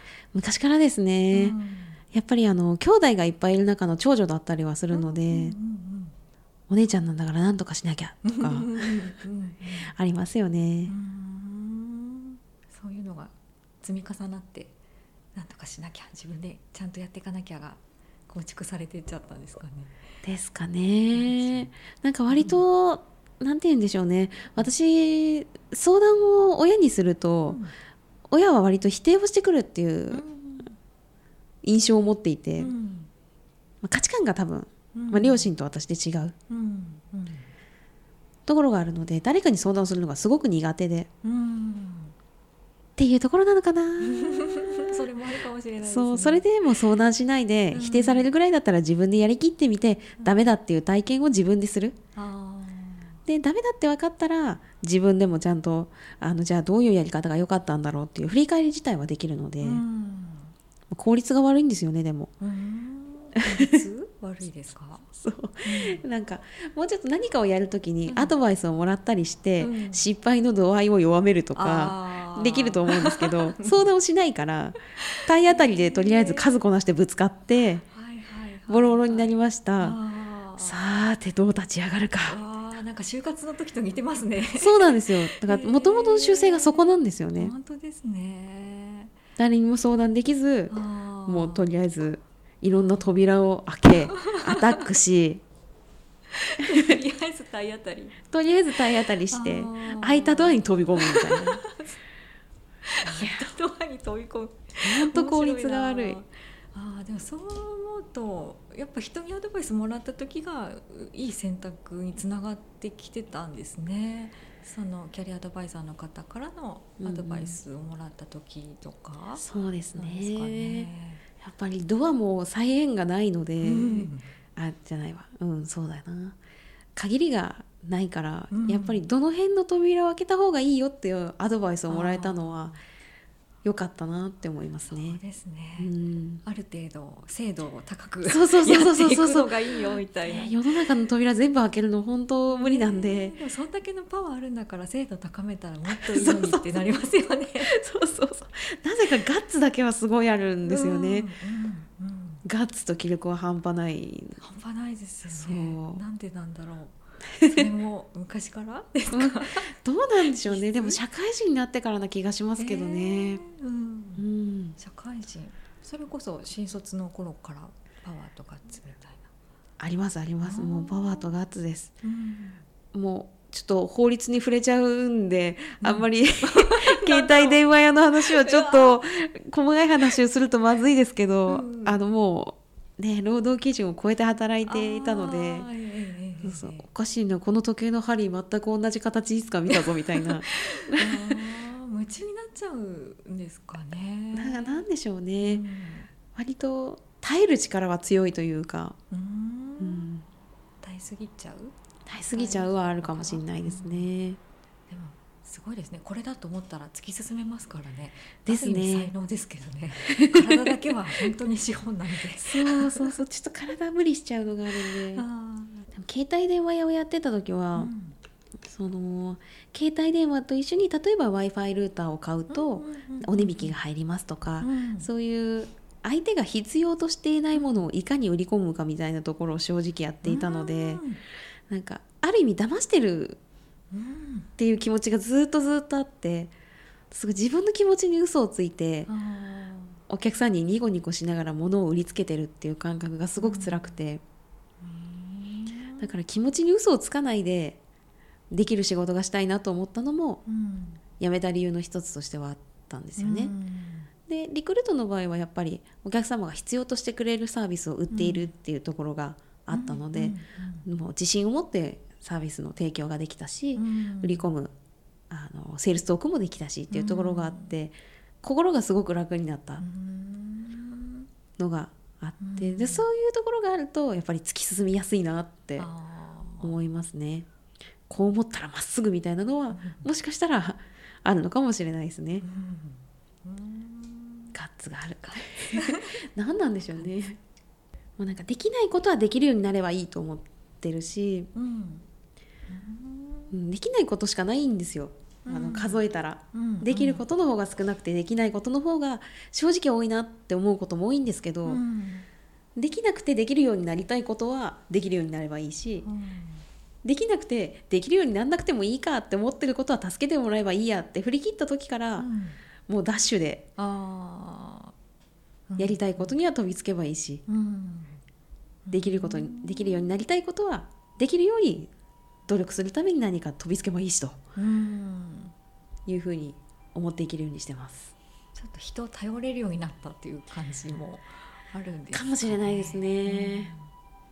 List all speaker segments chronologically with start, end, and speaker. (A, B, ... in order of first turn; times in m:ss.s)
0:00.3-0:01.6 A
0:01.3-0:02.0 B
0:02.1-0:05.6 A
0:04.9-0:06.1 B
0:06.7-0:09.1 A
0:08.2-0:09.9 B
0:09.8-0:10.9 A
0:10.9-0:14.7 B
0:15.3-0:19.9 B
0:20.2-0:27.6 A
0:21.1-0:21.7 B
0:22.3-0:22.6 B
0:27.5-0:27.7 B
0:28.3-0:30.2 A
0:30.1-0:30.8 B
0:31.6-0:32.7 A
0:32.6-0:33.1 B
0:33.8-0:36.3 A
0:34.9-0:35.5 B
0:36.5-0:37.5 B
0:38.5-0:41.1 A
0:41.2-0:42.1 B
0:43.0-0:45.1 A
0:44.0-0:46.4 B
0:45.8-0:52.0 A
0:47.7-0:48.3 B
0:52.2-0:53.2 B
0:53.3-0:59.8 A
0:59.6-1:00.5 B
1:00.9-1:02.3 A
1:02.4-1:05.0 B
1:03.6-1:03.8 A
1:05.1-1:17.8 A
1:05.6-1:06.0 B
1:08.1-1:08.4 B
1:09.6-1:10.1 B
1:11.6-1:13.8 B
1:15.1-1:16.5 B
1:17.8-1:20.8 B
1:18.7-1:20.0 A
1:20.6-1:22.4 A
1:22.2-1:29.1 B
1:24.6-1:27.5 A
1:29.4-1:35.4 A
1:30.7-1:31.7 B
1:32.7-1:33.0 B
1:34.2-1:34.8 B
1:36.4-1:38.2 B
1:38.3-1:41.6 A
1:39.3-1:42.0 B
1:43.0-2:01.2 B
1:43.0-1:43.5 A
1:44.8-1:46.2 A
1:57.0-1:57.6 A
1:59.4-2:00.9 A
2:01.4-2:06.4 A
2:03.6-2:04.2 B
2:07.0-2:12.7 A
2:08.5-2:09.0 B
2:11.9-2:12.8 B
2:13.6-2:15.2 A
2:14.8-2:15.9 B
2:15.8-2:16.4 A
2:16.4-2:20.6 B
2:18.2-2:23.4 A
2:22.5-2:27.8 B
2:25.9-2:26.8 A
2:27.6-2:31.3 A
2:30.6-2:32.4 B
2:32.4-2:34.4 A
2:34.4-2:36.9 B
2:35.2-2:36.0 A
2:37.4-2:37.6 A
2:37.4-2:39.7 B
2:39.1-2:43.4 A
2:40.4-2:41.0 B
2:42.6-2:44.2 B
2:44.2-2:44.8 A
2:44.8-2:49.3 B
2:49.8-2:51.9 A
2:50.4-2:51.3 B
2:52.0-2:52.6 B
2:52.9-3:05.7 A
2:55.8-2:57.6 B
2:58.2-2:59.0 B
3:01.5-3:02.0 B
3:04.7-3:06.9 B
3:06.4-3:11.4 A
3:09.7-3:14.8 B
3:14.3-3:15.6 A
3:15.4-3:16.1 B
3:16.3-3:19.0 A
3:19.1-3:20.1 B
3:19.8-3:20.2 A
3:20.8-3:21.7 B
3:22.0-3:24.4 A
3:22.3-3:24.0 B
3:24.9-3:33.2 B
3:28.4-3:29.1 A
3:30.0-3:30.7 A
3:32.4-3:35.2 A
3:34.9-3:35.9 B
3:35.9-3:37.9 A
3:37.7-3:38.2 B
3:38.6-3:51.0 A
3:42.5-3:43.8 B
3:44.6-3:45.1 B
3:47.5-3:47.8 B
3:50.2-3:51.2 B
3:51.7-3:53.4 A
3:53.9-3:54.5 B
3:54.6-3:56.5 A
3:57.1-3:59.1 A
3:59.1-4:00.0 B
4:00.1-4:04.2 A
4:03.4-4:03.9 B
4:04.8-4:06.1 B
4:06.0-4:07.8 A
4:08.5-4:10.4 A
4:10.5-4:11.0 B
4:11.2-4:13.5 A
4:13.2-4:14.1 B
4:14.3-4:24.7 A
4:18.1-4:18.5 B
4:19.7-4:20.8 B
4:23.8-4:24.5 B
4:25.3-4:29.8 A
4:26.9-4:27.7 B
4:29.8-4:31.3 B
4:31.6-4:35.9 A
4:32.4-4:33.1 B
4:35.8-4:36.7 B
4:36.6-4:37.5 A
4:38.1-4:42.4 A
4:39.7-4:40.1 B
4:42.4-4:44.5 B
4:44.5-4:47.4 A
4:45.2-4:46.2 B
4:48.2-4:51.5 A
4:51.5-4:52.0 B
4:52.7-4:53.5 B
4:53.5-5:01.8 A
4:55.4-4:56.0 B
4:56.5-4:57.2 B
5:01.6-5:02.3 B
5:02.8-5:06.1 A
5:06.0-5:06.6 B
5:07.0-5:12.3 A
5:12.2-5:12.6 B
5:12.9-5:13.7 A
5:13.8-5:14.9 B
5:15.7-5:16.3 B
5:15.8-5:17.4 A
5:17.5-5:18.2 B
5:18.8-5:20.1 B
5:18.9-5:21.9 A
5:22.5-5:24.4 A
5:24.6-5:25.5 B
5:26.1-5:28.1 A
5:28.5-5:33.8 B
5:32.1-5:33.7 A